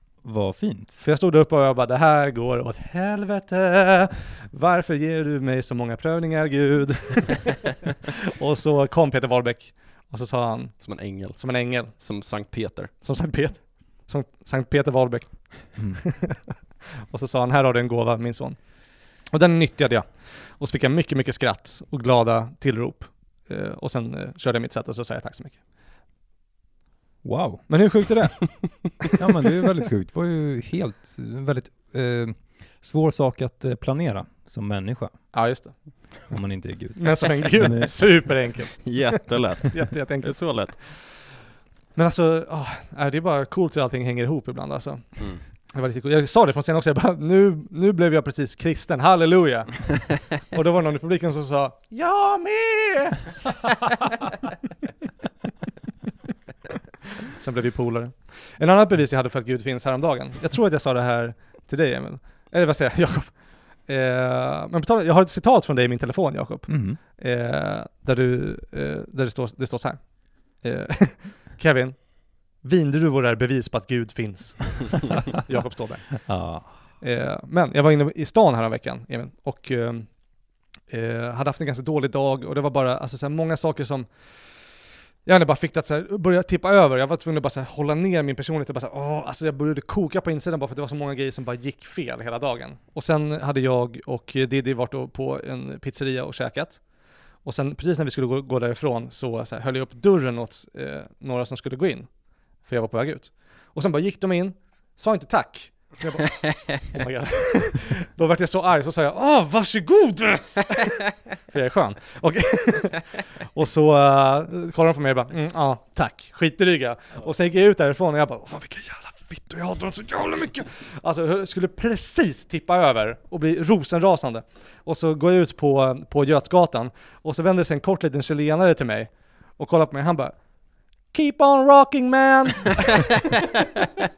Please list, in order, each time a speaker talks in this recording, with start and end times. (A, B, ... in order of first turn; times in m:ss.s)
0:00.2-0:01.0 A
0:01.0-0:07.9 B
0:08.4-0:12.0 B
0:10.8-0:12.9 C
0:13.0-0:16.5 B
0:15.8-0:16.0 A
0:17.1-0:25.6 B
0:27.2-0:27.8 A
0:27.7-0:28.8 B
0:29.1-0:35.3 A
0:35.3-0:36.2 B
0:36.3-0:38.5 A
0:37.0-0:41.1 B
0:38.8-0:40.8 C
0:41.9-0:54.1 B
0:57.4-2:10.4 B
1:06.7-1:07.0 A
1:16.2-1:16.8 A
2:11.0-2:13.1 B